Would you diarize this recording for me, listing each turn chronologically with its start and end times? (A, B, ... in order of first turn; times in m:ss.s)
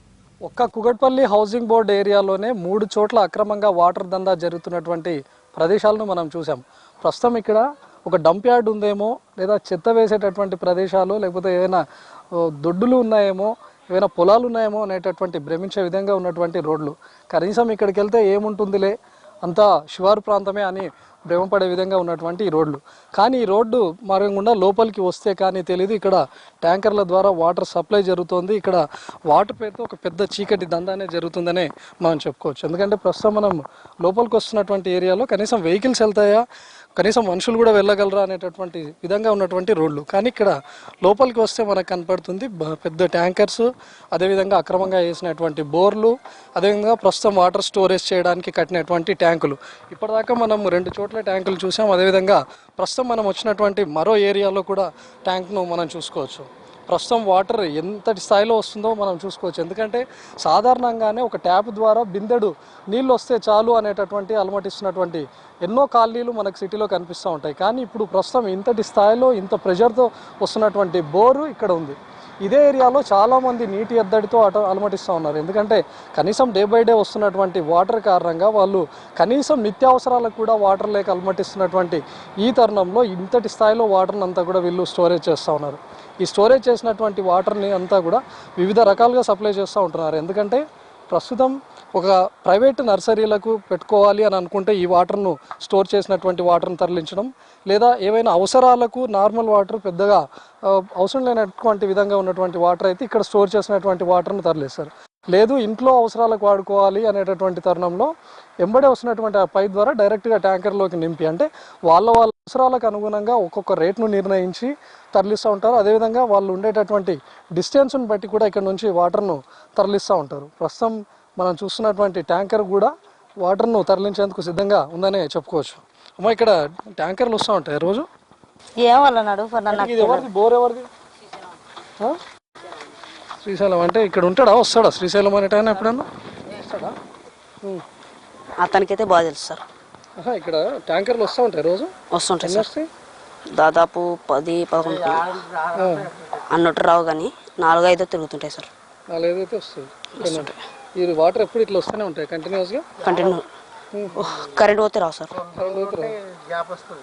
0:00.4-0:11.8 A
0:12.4-0:36.4 A
0:37.0-1:48.1 A
1:48.6-2:08.0 A
2:08.8-2:10.3 B
2:09.7-2:10.9 A
2:13.4-2:16.9 A
2:18.6-2:19.6 B
2:20.2-2:22.9 A
2:22.1-2:22.7 B
2:23.5-2:25.6 B
2:25.7-2:26.1 A
2:26.3-2:28.7 B
2:29.1-2:33.0 A
2:30.2-2:30.6 B
2:33.0-2:33.4 B
2:33.9-2:34.2 A
2:34.1-2:35.5 B
2:35.5-2:36.2 A